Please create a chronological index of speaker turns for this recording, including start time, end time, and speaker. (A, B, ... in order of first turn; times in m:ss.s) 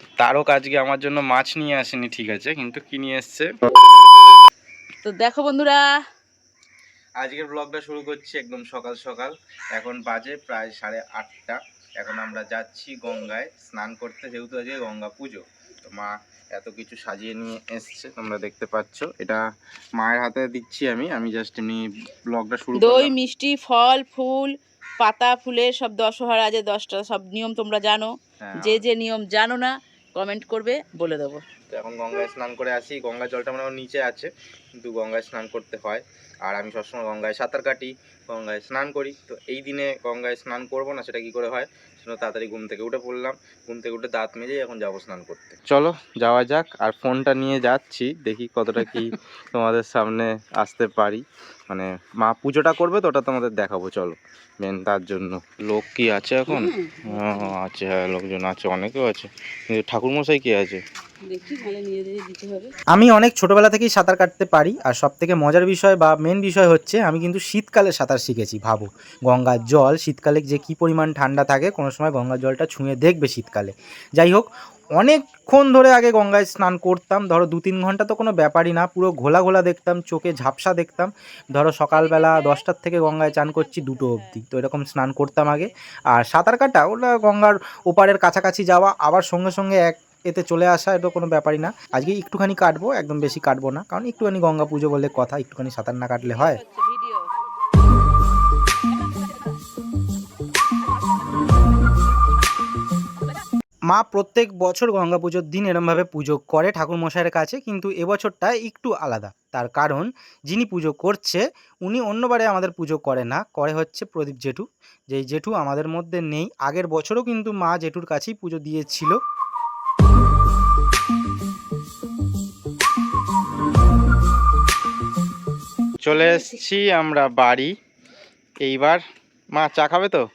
0:00.2-0:03.5 A
0:05.0-0:05.9 B
0:07.2-0:19.4 A
0:20.0-0:23.2 A
0:22.8-0:31.4 B
0:28.4-0:28.8 A
0:31.7-1:00.8 A
0:48.8-0:49.1 B
0:56.5-0:57.6 B
1:01.2-1:02.7 B
1:02.9-1:36.6 A
1:36.4-1:37.3 B
1:39.1-1:39.4 B
1:43.9-1:59.2 A
2:06.0-2:07.7 A
2:06.1-2:06.6 B
2:08.6-2:10.2 A